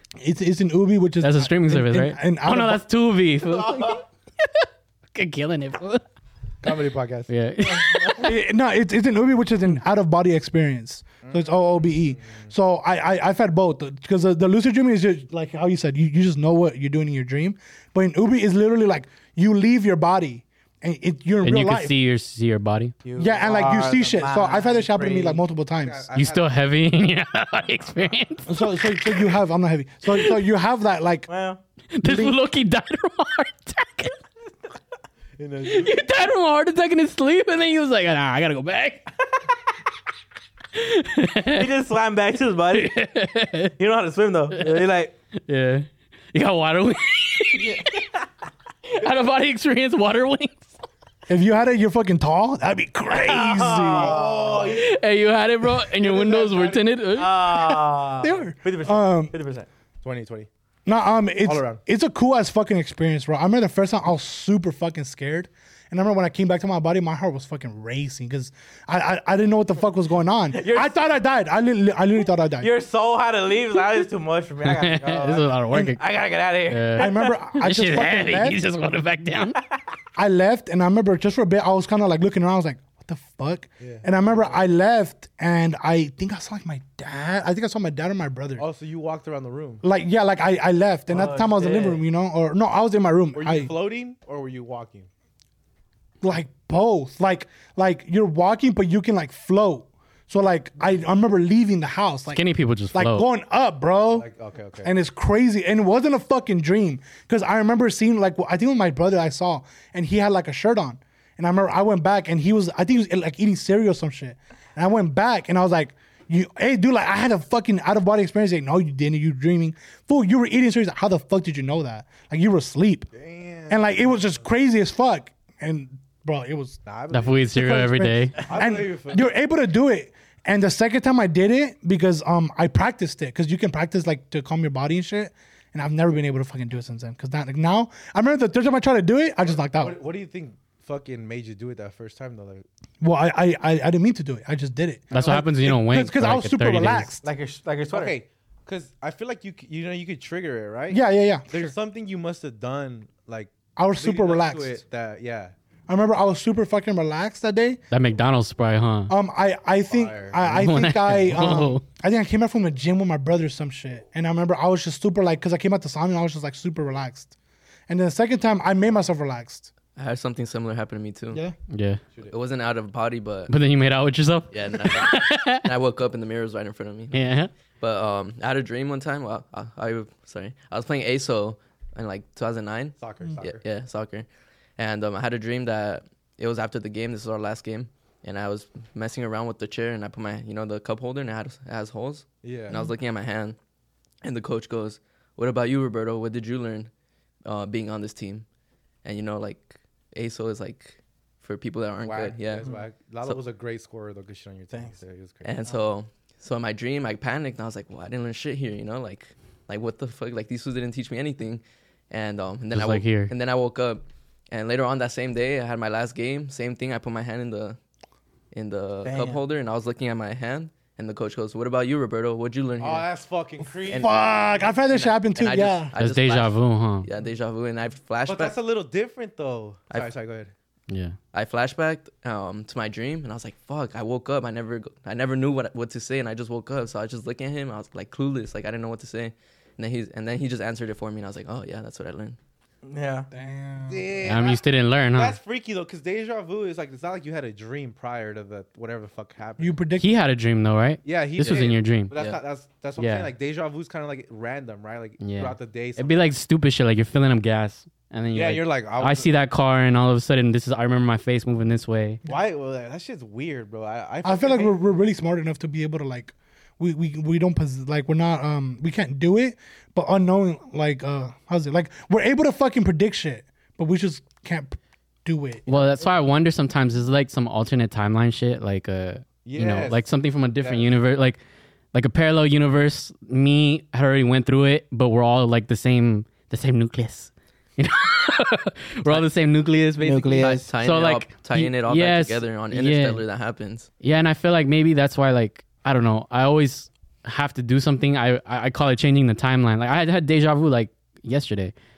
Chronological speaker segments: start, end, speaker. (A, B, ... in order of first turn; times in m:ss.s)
0:00.2-0:02.8 A
0:01.2-0:04.5 B
0:03.4-0:04.0 C
0:05.2-0:06.0 B
0:06.6-0:08.2 C
0:07.3-0:08.4 B
0:08.2-0:21.9 A
0:11.2-0:12.5 C
0:21.4-0:23.0 B
0:23.0-0:25.4 D
0:23.2-0:26.1 A
0:25.8-0:26.6 C
0:26.2-0:29.2 B
0:28.5-0:31.3 A
0:31.3-0:31.6 D
0:31.9-0:34.2 B
0:32.0-0:32.4 A
0:35.4-0:36.1 C
0:35.6-0:39.1 B
0:40.8-0:41.7 B
0:41.5-0:42.9 D
0:42.7-0:43.7 B
0:43.8-0:45.2 D
0:44.6-0:44.9 B
0:45.5-0:47.8 B
0:47.6-0:48.2 D
0:48.9-0:50.7 B
0:51.3-0:54.2 A
0:53.1-0:54.8 D
0:54.0-0:54.9 C
0:54.6-0:57.8 B
0:56.0-0:56.9 C
0:57.2-0:59.7 D
0:58.2-0:59.3 A
1:00.0-1:00.5 C
1:00.9-1:12.7 A
1:01.4-1:01.8 C
1:10.5-1:11.0 D
1:12.6-1:17.3 D
1:14.6-1:16.0 B
1:15.1-1:15.4 C
1:16.7-1:19.6 B
1:17.0-1:18.6 A
1:20.2-1:28.6 A
1:23.8-1:24.6 C
1:28.6-1:29.8 C
1:29.8-1:33.7 A
1:31.1-1:32.0 D
1:33.3-1:35.1 C
1:36.2-1:42.4 A
1:42.3-1:43.3 B
1:42.9-1:44.3 A
1:44.1-1:44.9 C
1:44.8-2:03.1 A
2:03.1-2:04.3 C
2:03.7-2:06.8 A
2:06.8-2:07.5 C
2:07.1-2:08.4 B
2:07.5-2:20.0 A
2:08.4-2:09.3 C
2:19.4-2:22.6 C
2:23.0-2:27.3 A
2:25.1-2:27.1 B
2:27.2-2:28.2 D
2:27.9-2:35.5 C
2:30.9-2:31.7 A
2:33.8-2:34.8 A
2:35.9-2:37.8 A
2:37.9-2:39.1 B
2:39.1-2:47.3 A
2:39.9-2:40.6 C
2:40.4-2:41.8 B
2:47.9-2:49.7 A
2:50.0-2:51.4 E
2:51.7-2:52.0 B
2:52.2-2:53.5 E
2:53.5-2:55.7 B
2:54.5-3:13.6 E
2:57.1-2:57.5 B
3:03.0-3:03.6 C
3:12.4-3:12.9 C
3:14.2-3:16.9 E
3:17.4-3:18.5 E
3:19.0-3:23.4 E
3:22.0-3:25.8 C
3:25.4-3:37.8 E
3:32.7-3:33.3 B
3:38.5-3:43.1 E
3:39.0-3:39.4 D
3:42.8-3:44.6 C
3:43.9-3:48.6 E
3:43.9-3:45.9 A
3:46.0-3:47.1 B
3:48.2-3:50.5 C
3:50.9-3:51.2 B
3:51.3-4:02.4 E
4:02.8-4:03.3 D
4:03.3-4:04.2 A
4:03.9-4:04.6 C
4:04.2-4:05.4 B
4:05.1-4:09.8 C
4:09.6-4:10.2 A
4:10.0-4:12.1 B
4:11.0-4:16.3 C
4:11.4-4:12.4 E
4:13.0-4:13.3 B
4:15.2-4:22.2 B
4:18.3-4:19.3 C
4:22.3-4:24.8 C
4:24.2-4:35.7 A
4:35.7-4:41.4 B
4:39.4-4:40.0 C
4:40.6-4:40.9 C
4:41.9-4:53.2 B
4:50.0-4:50.7 D
4:50.4-4:53.9 E
4:54.0-5:01.7 B